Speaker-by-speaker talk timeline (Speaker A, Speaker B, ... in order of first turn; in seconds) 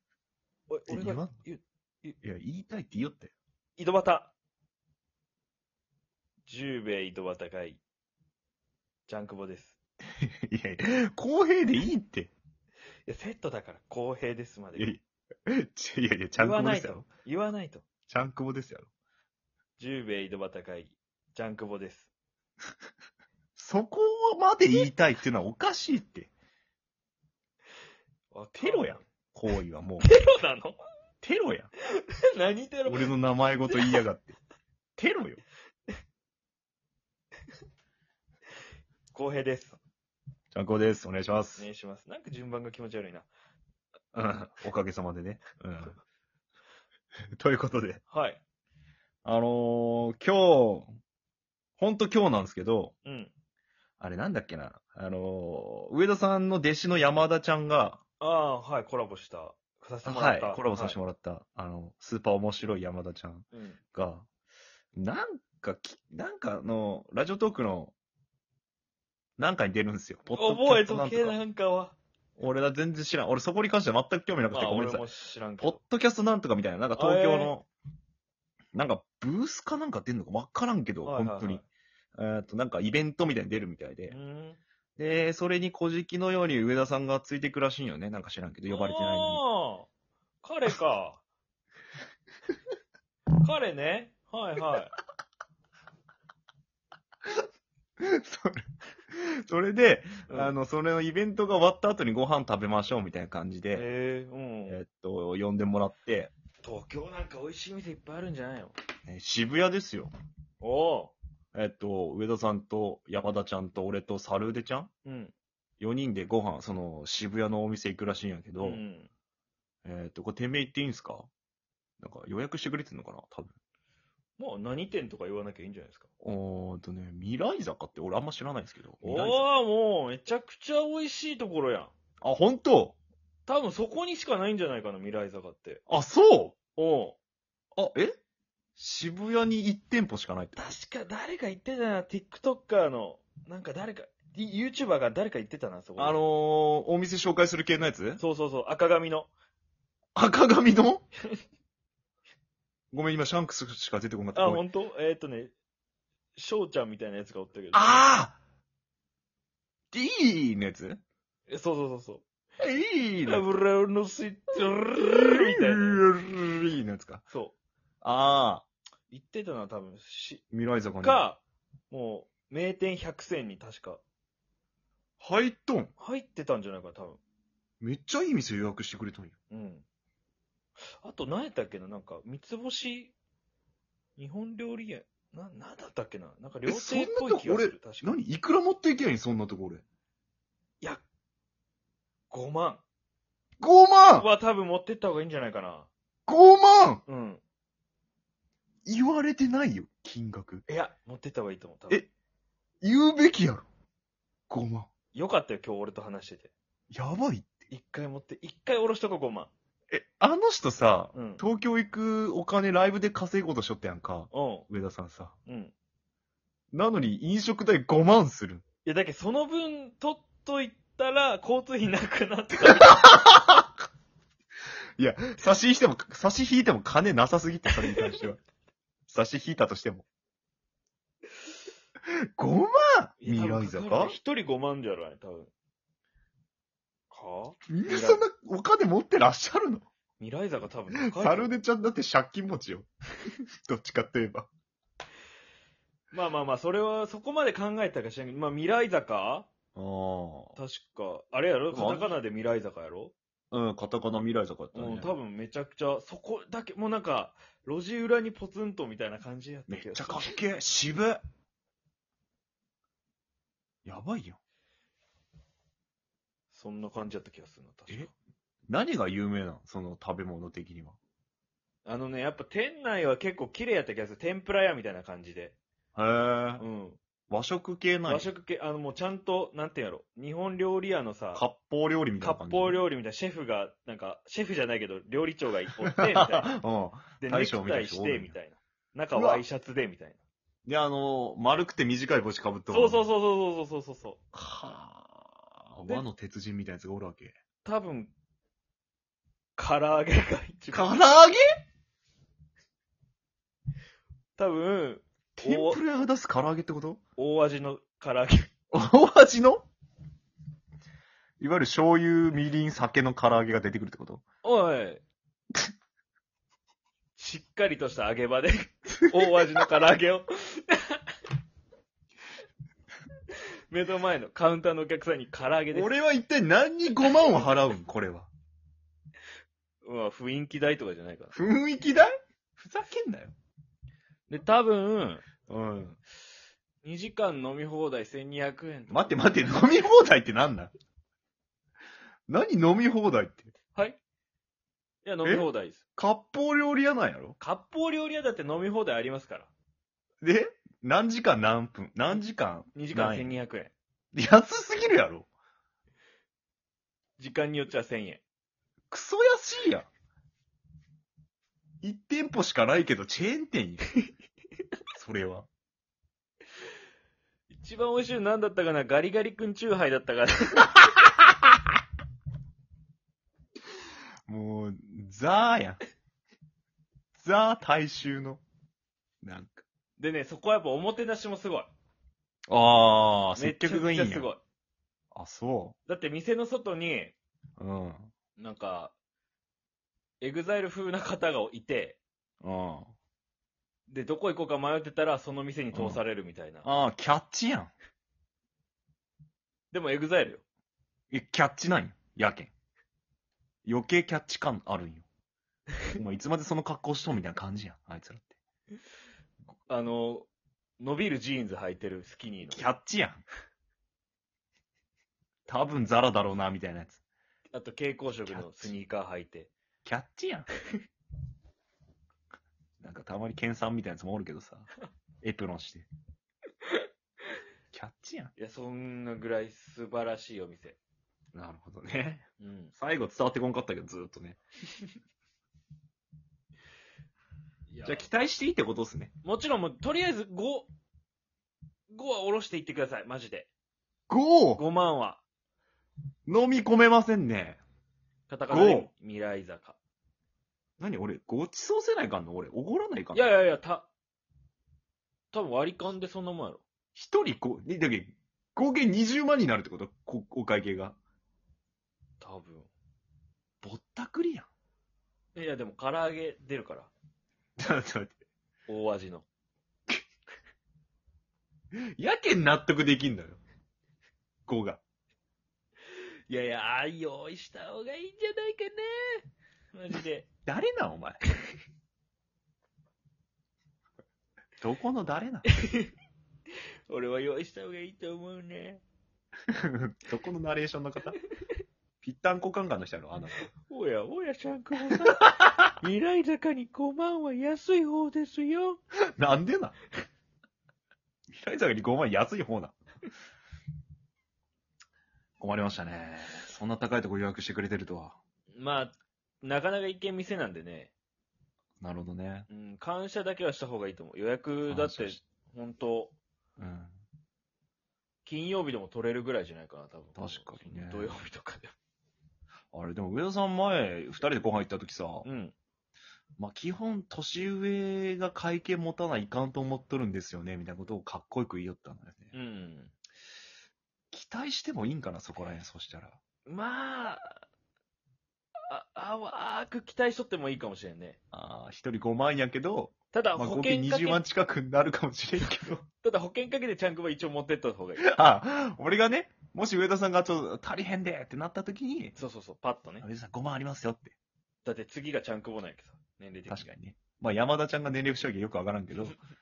Speaker A: 0.7-2.2, 3.8-4.3, 6.5-7.8, 9.1-9.8, 13.1-14.9, 16.4-17.8, 19.8-22.1, 28.3-29.1, 30.0-30.8, 32.0-33.1, 33.7-34.0, 39.1-39.8, 41.6-43.3, 48.1-48.4, 53.0-53.3, 58.2-61.0, 63.5-63.8, 70.3-72.0, 74.5-75.8, 77.0-77.5, 81.0-81.7, 84.1-84.6, 88.7-89.9, 90.4-91.2, 93.4-95.0, 100.3-100.5, 103.7-104.8, 106.6-108.8, 110.6-111.2, 115.0-115.3, 118.6-119.1, 124.4-126.1, 129.0-131.9, 133.5-135.8, 136.8-137.2, 140.6-146.2, 148.2-149.3, 154.3-155.5, 156.4-158.1, 161.5-162.2, 163.2-166.0, 167.3-167.6, 169.1-170.4, 171.0-174.0, 176.0-177.2, 179.5-179.8, 181.0-183.1, 184.2-188.1, 192.3-192.8, 194.2-195.9, 197.1-197.4, 200.7-202.0, 205.1-206.5, 207.7-209.5, 211.1-211.5, 214.3-214.7, 215.5-215.7, 218.8-223.1, 227.9-228.2, 233.2-235.5, 237.1-238.2, 240.2-241.6, 246.1-249.5, 250.6-253.1, 254.7-260.4, 266.5-268.1, 271.9-275.6, 276.6-277.0, 278.1-281.4, 282.2-286.6, 287.2-290.2, 292.7-294.2, 297.6-298.1, 299.6-301.0, 304.4-305.8, 307.2-308.5, 314.4-315.0, 317.2-321.1, 323.3-325.9, 329.8-331.3, 334.3-335.2, 336.8-339.3, 343.7-344.0, 345.0-345.8, 347.4-349.5, 352.8-353.7, 357.2-358.2, 367.5-371.0, 380.0-381.7, 383.4-384.4, 385.9-387.2, 388.4-388.9, 390.2-392.0, 393.9-396.7, 399.7-400.4, 409.7-410.3, 410.8-412.7, 417.5-419.5, 428.4-430.8, 432.4-432.7, 437.7-438.1, 439.2-440.7, 441.9-443.5, 444.6-445.2, 448.3-449.8, 453.1-453.9, 455.3-456.6, 462.2-462.7, 465.4-466.9, 468.7-469.3, 476.3-480.3, 485.4-485.9, 486.9-488.8, 493.5-498.8, 508.5-510.9, 512.5-516.2, 518.2-521.7, 525.2-525.5, 532.3-532.9, 536.5-537.4, 538.7-541.2, 543.1-544.2, 546.0-548.1, 552.2-553.1, 554.6-556.7
Speaker B: 0.9-1.4, 2.2-3.3, 10.2-12.3, 14.8-17.1, 18.1-18.9, 23.6-26.3, 28.6-30.1, 31.2-31.7, 32.9-34.4, 35.0-35.4, 40.5-41.7, 44.1-46.0, 47.4-48.0, 49.2-50.9, 51.8-52.9, 54.0-58.0, 60.0-64.3, 64.9-67.9, 69.4-71.4, 72.4-75.1, 75.6-77.7, 78.7-84.2, 85.0-89.4, 98.0-103.9, 104.7-106.3, 109.1-110.1, 111.5-114.9, 115.8-118.8, 119.8-121.3, 122.0-123.5, 126.2-129.5, 132.2-133.0, 135.9-136.6, 137.8-138.2, 138.8-140.6, 146.0-148.2, 150.2-151.1, 152.9-154.7, 157.7-158.4, 159.9-161.0, 162.6-163.4, 165.0-167.2, 168.0-168.7, 170.5-171.2, 175.2-175.9, 177.8-179.4, 186.7-189.8, 193.6-194.3, 196.3-197.0, 198.8-200.7, 202.8-203.7, 204.5-204.9, 206.9-207.7, 209.9-215.3, 216.7-218.6, 222.7-223.7, 225.0-228.4, 229.1-230.1, 232.1-234.2, 237.7-239.9, 240.9-242.9, 243.6-244.5, 249.8-250.6, 251.7-252.2, 253.5-255.1, 259.7-261.2, 263.9-264.4, 268.7-271.0, 275.9-276.6, 277.3-278.3, 281.3-282.8, 285.9-288.4, 289.1-289.4, 290.7-293.1, 294.3-297.4, 300.7-301.4, 305.4-307.0, 308.7-309.7, 311.4-314.2, 319.0-319.6, 325.7-328.3, 331.3-333.3, 335.5-336.0, 338.9-340.7, 342.3-343.5, 345.2-347.4, 350.2-353.3, 354.1-355.3, 358.9-359.9, 361.8-363.9, 364.9-365.5, 374.3-375.8, 377.1-378.4, 379.2-379.6, 382.5-384.3, 385.1-385.8, 387.6-388.1, 392.4-392.9, 395.7-396.0, 396.6-397.7, 401.1-402.5, 403.6-405.1, 405.9-408.4, 412.5-413.2, 415.5-417.0, 418.3-418.8, 419.9-420.5, 422.8-424.7, 425.2-425.9, 427.7-428.3, 431.3-432.3, 432.8-434.4, 437.8-439.1, 444.1-444.6, 446.3-447.6, 448.5-448.9, 450.8-453.2, 456.9-461.0, 463.6-464.5, 467.6-468.2, 471.8-473.4, 474.5-474.8, 480.5-481.2, 484.6-485.5, 489.5-491.2, 492.0-493.5, 495.0-495.5, 499.2-499.8, 501.3-502.8, 505.4-508.2, 511.8-512.5, 514.7-515.2, 516.6-517.0, 520.2-521.2, 522.7-525.3, 526.4-532.3, 534.1-536.2, 541.3-545.9, 548.0-552.1, 553.0-554.1, 556.5-559.2